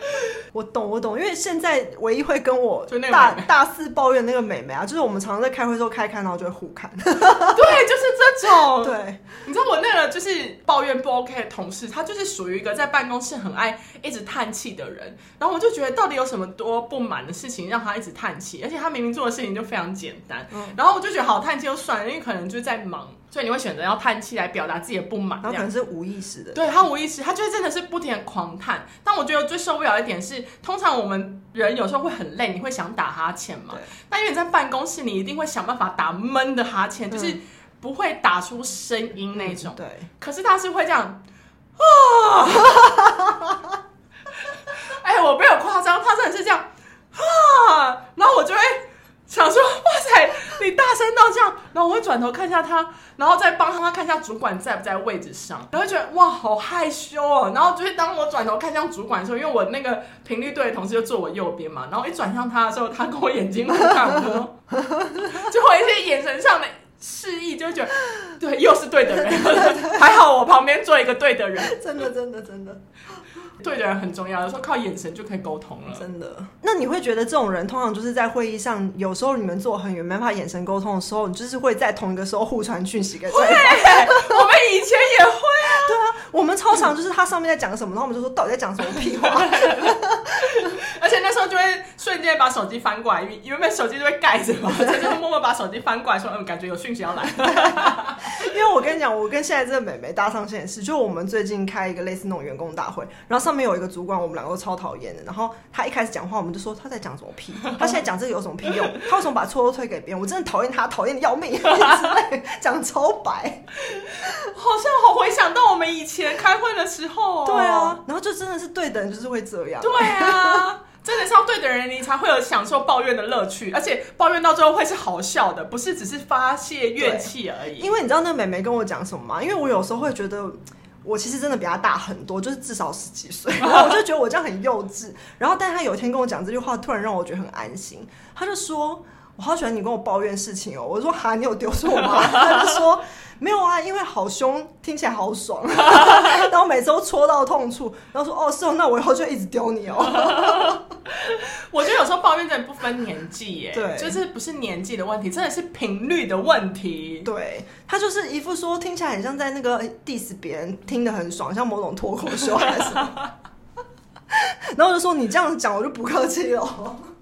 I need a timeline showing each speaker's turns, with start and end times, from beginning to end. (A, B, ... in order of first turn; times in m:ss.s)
0:00.5-0:07.8 A
0:02.9-0:03.5 B
0:07.4-0:25.7 B
0:08.6-0:09.2 A
0:20.5-0:20.8 A
0:25.4-0:26.8 A
0:26.6-0:41.2 B
0:37.1-0:37.4 A
0:39.4-0:40.1 A
0:41.8-0:43.1 B
0:42.5-0:43.7 A
0:44.5-1:04.6 B
1:04.8-1:05.3 A
1:05.2-1:11.8 B
1:09.3-1:10.0 A
1:11.6-1:12.8 A
1:13.6-1:16.1 B
1:15.9-1:24.4 A
1:23.3-1:26.0 B
1:25.7-1:30.7 A
1:28.9-1:38.4 B
1:37.4-1:53.7 A
1:47.6-1:48.0 B
1:53.9-1:58.0 B
1:57.4-2:00.6 A
1:59.8-2:07.9 B
2:07.0-2:30.8 A
2:30.1-2:37.3 B
2:33.7-2:34.2 A
2:37.2-2:43.2 A
2:42.6-2:43.3 B
2:44.3-2:47.1 A